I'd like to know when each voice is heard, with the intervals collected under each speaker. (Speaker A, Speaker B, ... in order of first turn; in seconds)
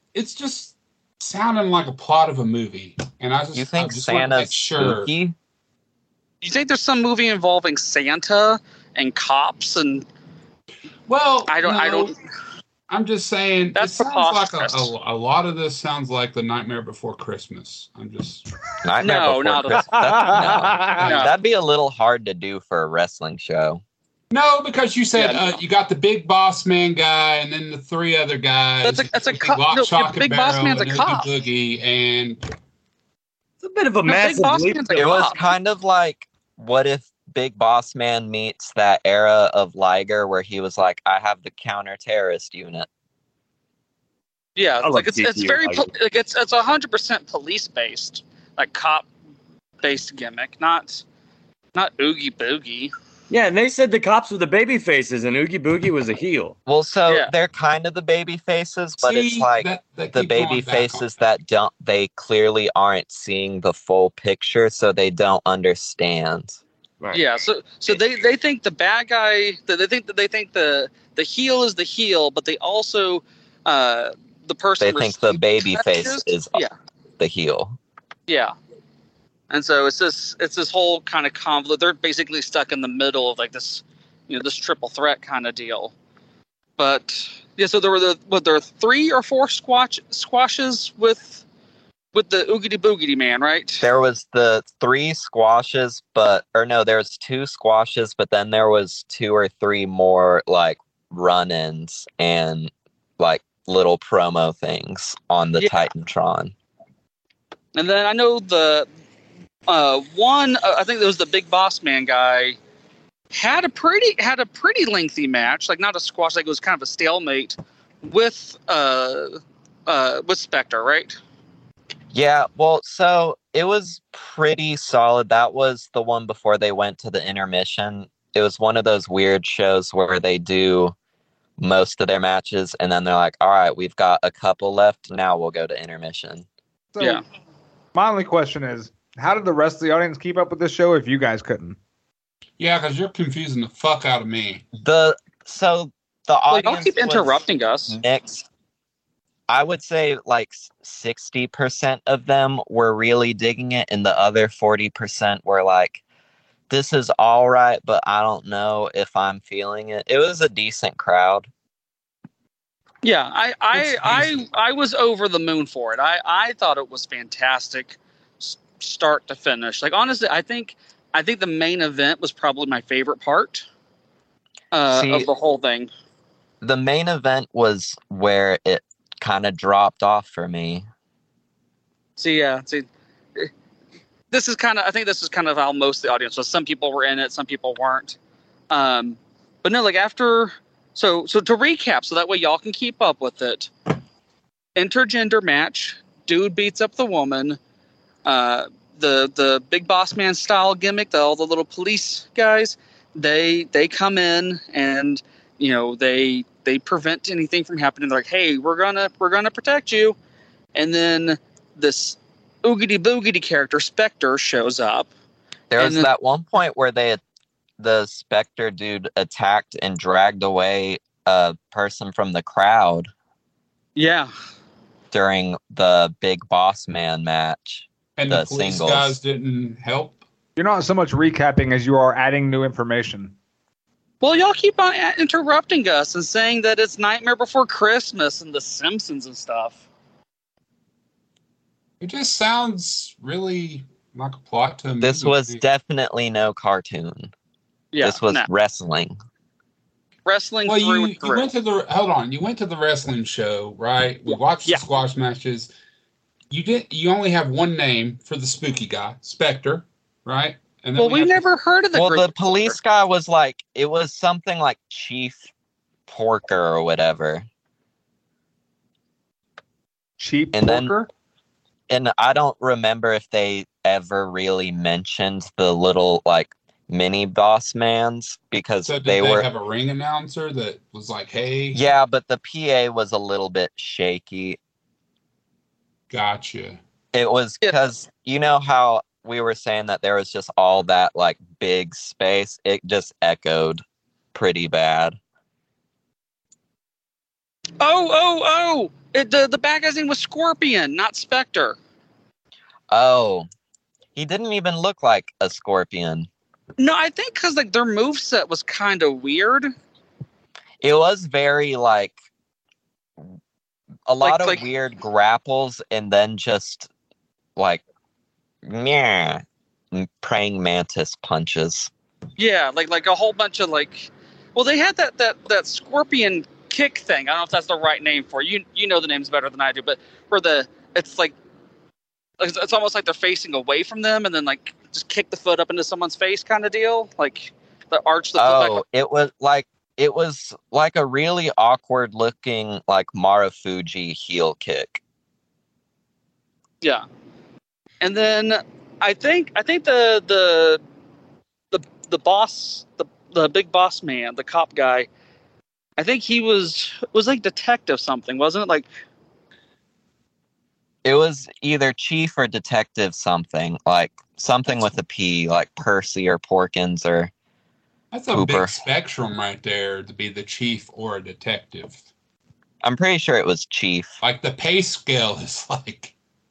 Speaker A: 0.1-5.1, 11.1-12.1, 12.9-18.4, 24.3-32.5, 59.0-61.1, 142.6-144.6, 228.2-230.2, 242.0-245.6, 250.7-255.7, 256.5-261.5, 278.8-281.8, 286.1-286.8, 368.1-372.0, 374.2-376.1
Speaker B: 3.5-5.3, 18.8-23.8, 35.0-42.9, 56.7-66.6, 74.8-76.6, 77.2-77.8, 93.8-106.5, 122.1-130.9, 131.6-136.4, 144.8-148.5, 149.5-156.0, 156.7-161.5, 174.9-175.3, 176.6-180.8, 215.7-217.2, 217.8-223.1, 225.1-229.1, 245.0-247.3, 248.0-249.2, 261.9-265.4, 266.1-267.5, 270.5-270.9, 271.9-279.5, 281.7-284.6, 287.1-293.8, 294.3-295.2, 302.9-303.5, 304.1-306.3, 310.8-312.1, 314.1-316.9, 317.6-317.8, 318.6-321.9, 338.4-345.0, 361.0-367.3, 368.3-368.8, 372.8-374.1
Speaker C: 6.4-10.1, 11.5-12.1, 13.7-14.9, 19.0-19.8, 21.0-21.3, 25.1-25.6, 28.8-31.3, 34.0-35.4, 44.5-49.1, 49.8-51.0, 51.7-52.9, 67.1-76.7, 78.3-78.5, 79.5-85.9, 86.8-91.4, 92.1-93.8, 105.6-105.9, 107.7-108.9, 109.7-112.6, 113.3-119.3, 119.9-121.2, 146.5-148.0, 163.0-173.7, 174.7-175.9, 182.2-183.5, 184.3-188.2, 188.7-193.7, 194.8-197.6, 198.2-210.2, 210.7-215.1, 215.8-216.1, 223.9-224.3, 234.2-239.8, 247.9-248.5, 250.2-251.5, 254.3-254.8, 260.9-262.8, 297.8-301.8, 306.8-309.7, 314.2-314.6, 322.4-331.3, 332.4-338.8, 348.0-350.8, 351.7-355.1, 356.0-358.9
Speaker D: 19.9-21.1, 136.9-137.2, 137.9-141.8, 230.6-233.3, 270.2-271.1
Speaker E: 33.6-35.1, 44.8-45.9, 53.3-56.5